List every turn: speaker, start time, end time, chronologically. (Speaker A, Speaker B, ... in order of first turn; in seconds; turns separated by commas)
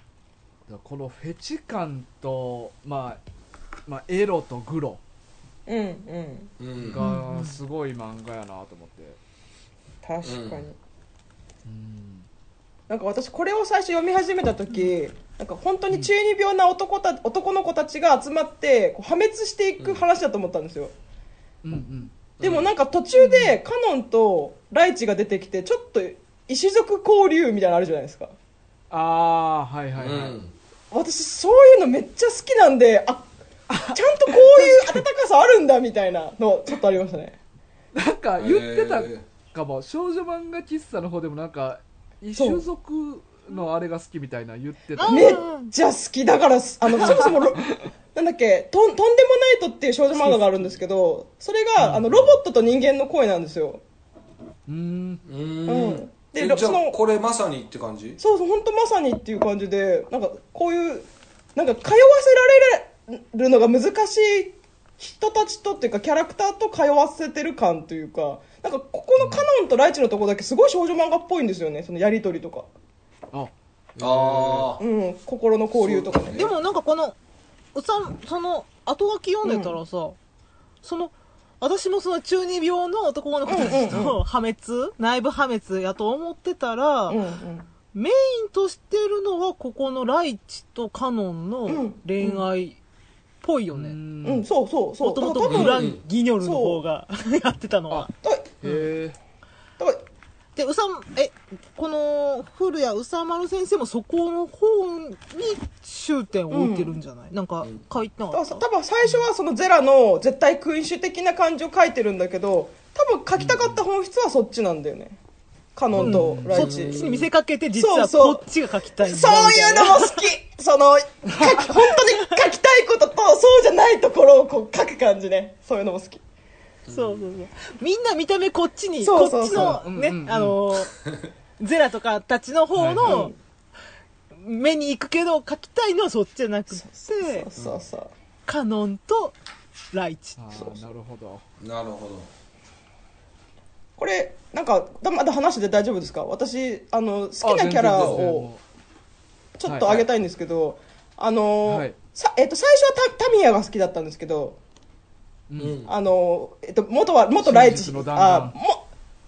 Speaker A: 0.7-3.2, Speaker A: 3.9-5.0, Speaker B: 5.7-6.5, Speaker C: 6.6-7.0, Speaker A: 6.8-9.2, Speaker D: 7.0-7.6, Speaker B: 10.0-10.8, Speaker C: 10.2-10.7, Speaker A: 11.6-12.2, Speaker B: 12.9-20.9, Speaker C: 19.8-20.0, Speaker A: 21.6-22.1, Speaker C: 22.4-22.7, Speaker B: 22.4-28.3, Speaker D: 23.1-23.6, Speaker A: 28.9-30.4, Speaker C: 30.0-30.5, Speaker B: 30.9-33.3, Speaker A: 33.7-35.0, Speaker B: 33.9-37.4, Speaker A: 37.9-45.3, Speaker C: 38.4-39.2, Speaker B: 42.4-42.6, Speaker D: 45.0-45.7, Speaker B: 45.0-53.8, Speaker A: 46.9-47.9, Speaker A: 50.2-50.7, Speaker A: 51.8-52.4, Speaker A: 54.7-55.2, Speaker C: 55.2-58.2, Speaker B: 55.7-57.0, Speaker B: 58.2-72.7, Speaker A: 69.2-69.5, Speaker A: 73.3-74.7, Speaker C: 74.0-74.8, Speaker B: 74.8-76.4, Speaker C: 75.7-76.5, Speaker D: 76.3-77.2, Speaker D: 77.7-80.2, Speaker B: 79.4-79.8, Speaker D: 80.8-87.2, Speaker B: 83.5-84.2, Speaker B: 87.1-87.7, Speaker D: 87.9-92.8, Speaker B: 91.7-92.5, Speaker D: 93.4-94.0, Speaker A: 93.7-94.5, Speaker B: 94.2-96.8, Speaker D: 95.0-98.1, Speaker C: 95.5-96.0, Speaker B: 97.9-98.9, Speaker A: 98.6-99.2, Speaker B: 99.8-100.0, Speaker D: 100.5-108.6, Speaker B: 106.5-107.0, Speaker B: 108.3-115.2, Speaker A: 113.3-113.8, Speaker B: 115.8-117.0, Speaker A: 115.9-116.5, Speaker D: 115.9-120.2, Speaker C: 116.5-117.3, Speaker B: 117.8-118.4, Speaker B: 119.0-126.2, Speaker C: 126.9-127.3, Speaker D: 126.9-131.0, Speaker B: 129.0-129.8, Speaker A: 129.5-130.6, Speaker D: 131.6-133.3, Speaker A: 132.8-133.2, Speaker B: 133.0-133.3, Speaker D: 134.3-137.4, Speaker B: 136.8-138.1, Speaker D: 138.5-139.3, Speaker D: 139.9-140.4, Speaker A: 140.4-141.4, Speaker C: 141.6-142.3, Speaker B: 144.0-148.5, Speaker A: 147.4-148.6, Speaker C: 147.9-148.2, Speaker B: 149.6-154.6, Speaker A: 149.6-150.1, Speaker A: 151.7-151.9, Speaker A: 155.5-155.8, Speaker C: 155.6-155.9, Speaker B: 155.8-158.8, Speaker A: 157.4-158.6